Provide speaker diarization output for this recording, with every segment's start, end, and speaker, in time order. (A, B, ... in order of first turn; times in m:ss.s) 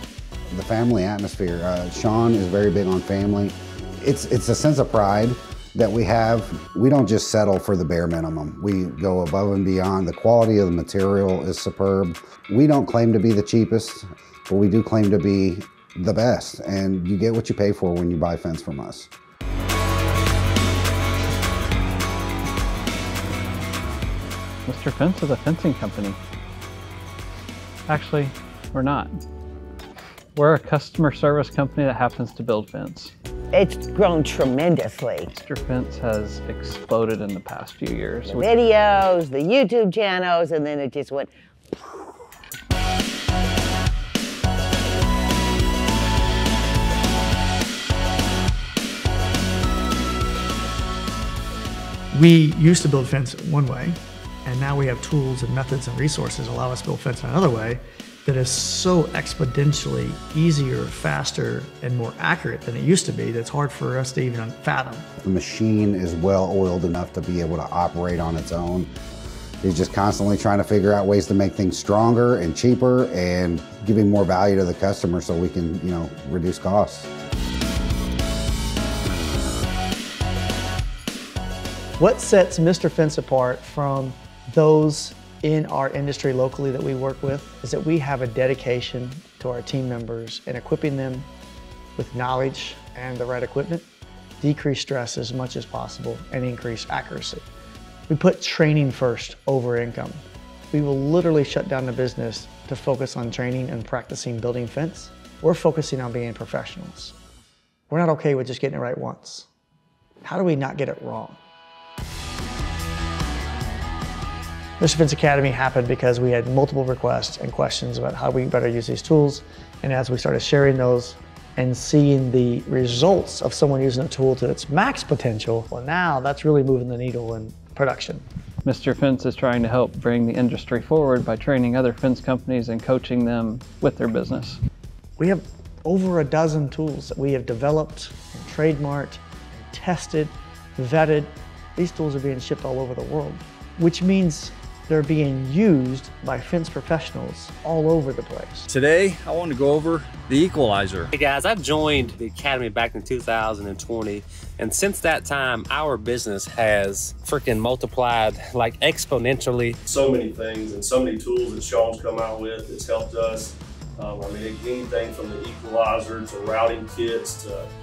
0:00.5-0:19.1 A
0:24.6-0:26.2 B
0:27.9-0:29.2 B
0:30.3-0:33.1 B
0:33.5-0:35.3 C
0:35.3-0:38.5 B
0:38.2-0:41.8 C
0:52.1-1:05.0 D
1:05.2-1:08.9 A
1:09.6-1:17.1 A
1:22.0-1:31.3 D
1:32.0-1:33.8 D
1:34.4-1:37.5 D
1:38.1-1:47.1 D
1:47.9-1:49.5 D
1:50.2-1:51.4 D
1:54.8-2:08.2 D
2:08.6-2:14.6 B
2:15.2-2:28.7 D
2:28.7-2:31.1 E
2:31.1-2:39.8 F
2:39.9-2:47.7 G